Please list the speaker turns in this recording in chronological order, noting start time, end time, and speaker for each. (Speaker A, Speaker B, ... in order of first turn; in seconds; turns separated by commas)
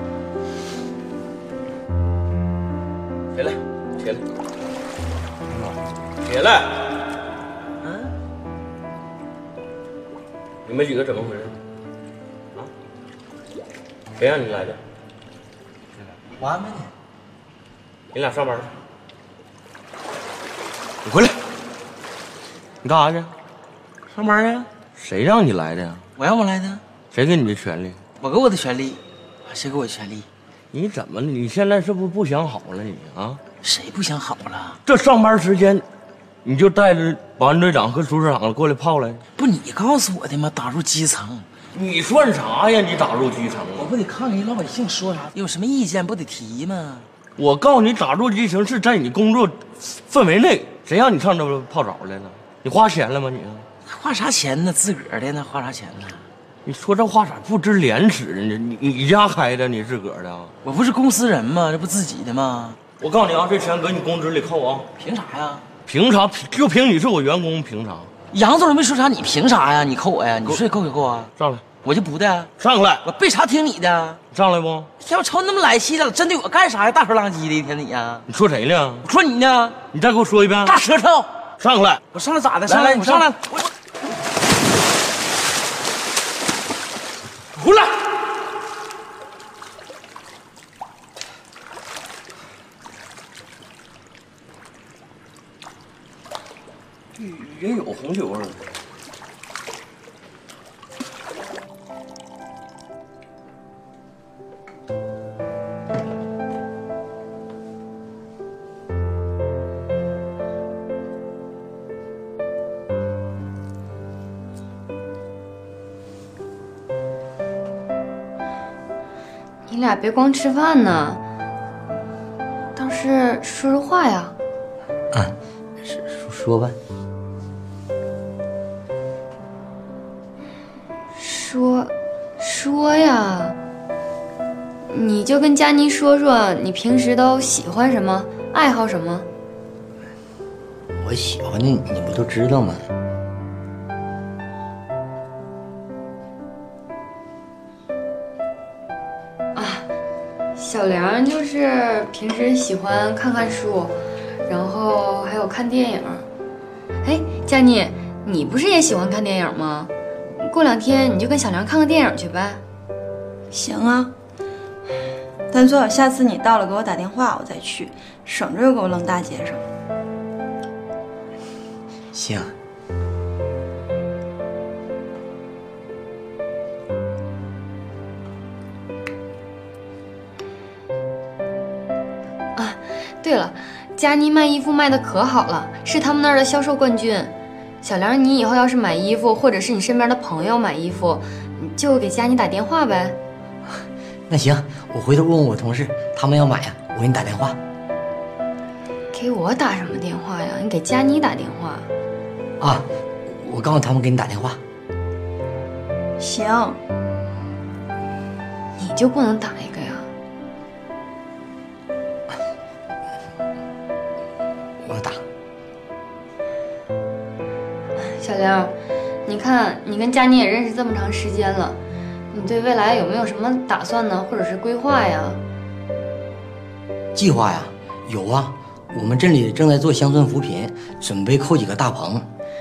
Speaker A: 3.3-4.2, Speaker A: 6.2-6.8, Speaker B: 7.8-8.1, Speaker A: 10.7-11.5, Speaker A: 14.2-14.8, Speaker B: 16.4-16.9, Speaker A: 18.1-18.7, Speaker A: 22.8-23.3, Speaker B: 24.1-24.7, Speaker A: 24.9-26.0, Speaker B: 26.2-26.8, Speaker A: 27.1-28.0, Speaker B: 28.2-30.3, Speaker A: 30.7-33.4, Speaker B: 33.6-34.8, Speaker A: 34.9-35.8, Speaker A: 36.4-39.2, Speaker B: 39.4-41.5, Speaker A: 41.7-43.9, Speaker B: 43.8-47.1, Speaker A: 47.4-53.7, Speaker B: 53.8-56.2, Speaker A: 56.6-60.5, Speaker B: 60.6-62.8, Speaker A: 63.0-64.9, Speaker B: 65.0-65.6, Speaker A: 65.8-68.1, Speaker B: 68.3-72.5, Speaker A: 71.4-71.7, Speaker A: 72.6-73.0, Speaker B: 73.0-74.2, Speaker A: 74.3-74.9, Speaker B: 75.0-78.2, Speaker A: 78.3-79.0, Speaker B: 79.0-79.8, Speaker A: 79.9-80.8, Speaker B: 80.6-81.3, Speaker A: 81.6-82.0, Speaker B: 82.1-83.7, Speaker A: 82.7-83.2, Speaker A: 97.2-98.6, Speaker C: 119.7-121.2, Speaker C: 122.7-124.3, Speaker D: 125.1-126.8, Speaker C: 131.2-133.6, Speaker C: 134.9-139.3, Speaker D: 141.0-142.8, Speaker C: 149.5-149.9, Speaker C: 150.6-153.9, Speaker C: 154.5-156.2, Speaker C: 157.0-162.6, Speaker E: 163.5-164.1, Speaker E: 165.5-169.6, Speaker D: 172.1-172.5, Speaker C: 182.6-193.2, Speaker D: 194.3-197.6, Speaker C: 199.1-201.9, Speaker D: 202.6-204.6, Speaker E: 206.2-206.8, Speaker C: 208.8-210.1, Speaker D: 214.8-215.2, Speaker C: 218.0-218.7, Speaker C: 219.2-221.8, Speaker C: 222.3-225.4, Speaker D: 227.1-232.3